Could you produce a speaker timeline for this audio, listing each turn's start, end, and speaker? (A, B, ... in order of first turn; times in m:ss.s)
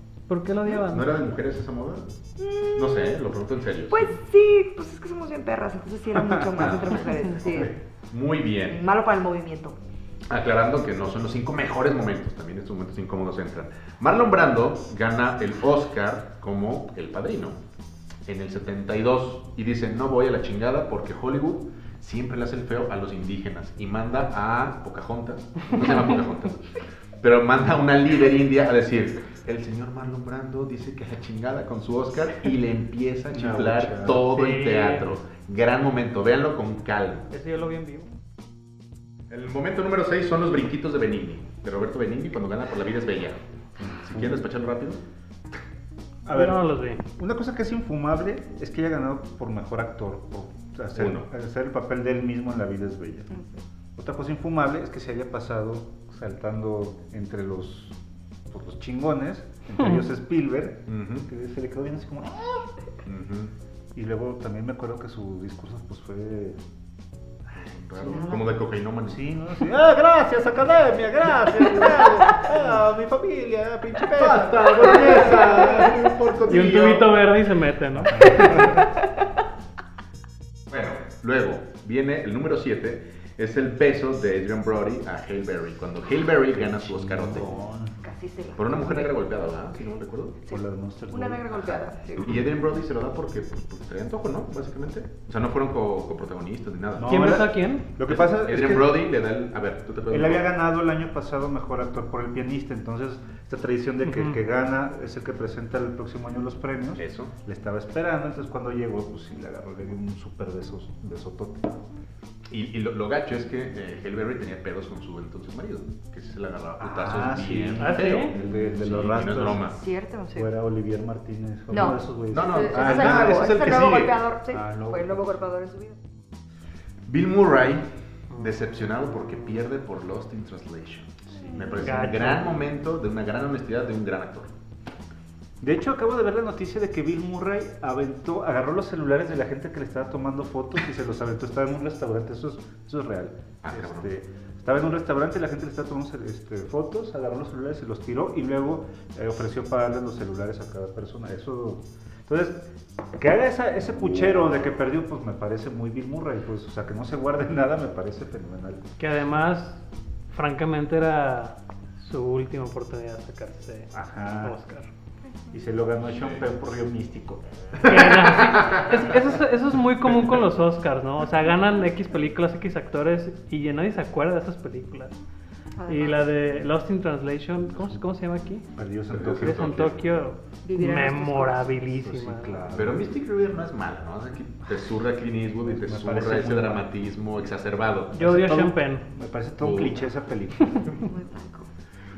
0:00.3-0:01.1 A
0:00.9-0:02.1 B
0:02.4-0:03.2 C
0:02.8-0:04.2 B
0:03.9-0:07.7 C
0:06.2-0:06.7 D
0:06.6-0:08.8 B
0:08.6-0:09.8 C
0:10.3-0:17.6 B
0:18.3-0:26.6 B
0:27.2-0:37.3 B
0:33.3-0:34.2 D
0:34.3-0:35.2 A
0:37.3-0:38.1 A
0:39.3-0:45.0 B
0:46.2-0:53.3 D
0:46.3-0:47.0 A
0:50.9-0:51.3 B
0:53.3-0:53.6 C
0:54.0-0:58.0 D
0:58.5-1:02.7 D
0:59.8-1:00.1 A
1:00.9-1:01.3 B
1:03.0-1:03.5 B
1:03.9-1:06.6 D
1:07.5-1:09.2 B
1:08.0-1:08.5 C
1:08.0-1:08.4 D
1:09.0-1:15.3 D
1:12.0-1:12.4 C
1:14.1-1:17.1 B
1:14.8-1:16.0 C
1:15.0-1:15.4 A
1:16.4-1:18.8 A
1:18.0-1:18.8 D
1:18.2-1:19.2 C
1:20.7-1:27.6 B
1:26.5-1:27.9 D
1:28.0-1:29.8 C
1:28.6-1:30.4 B
1:30.4-1:32.4 C
1:30.5-1:31.6 D
1:32.2-1:37.1 B
1:36.9-1:39.0 D
1:37.1-1:37.9 A
1:38.1-1:40.5 B
1:40.1-1:51.8 D
1:44.0-1:44.4 A
1:47.0-1:47.3 B
1:52.5-1:59.8 B
1:56.8-1:59.6 D
1:57.8-1:58.3 A
1:59.6-2:00.5 C
2:00.3-2:03.6 D
2:01.7-2:06.0 C
2:02.3-2:04.3 B
2:04.5-2:05.5 D
2:07.1-2:14.5 B
2:08.3-2:09.6 A
2:11.3-2:11.8 C
2:11.4-2:12.4 D
2:11.8-2:12.6 A
2:15.6-2:32.6 D
2:23.6-2:24.1 B
2:33.2-2:38.8 D
2:39.0-2:44.9 A
2:43.9-2:44.6 D
2:45.5-2:48.0 D
2:47.8-2:55.2 A
2:55.8-2:56.4 C
2:55.9-2:58.7 A
2:58.8-2:59.9 D
2:59.1-3:00.0 B
2:59.3-3:02.6 A
3:00.6-3:01.8 C
3:01.8-3:03.1 D
3:02.7-3:08.3 B
3:05.6-3:06.9 D
3:08.1-3:10.9 D
3:08.2-3:09.1 A
3:09.6-3:10.0 B
3:10.9-3:11.7 C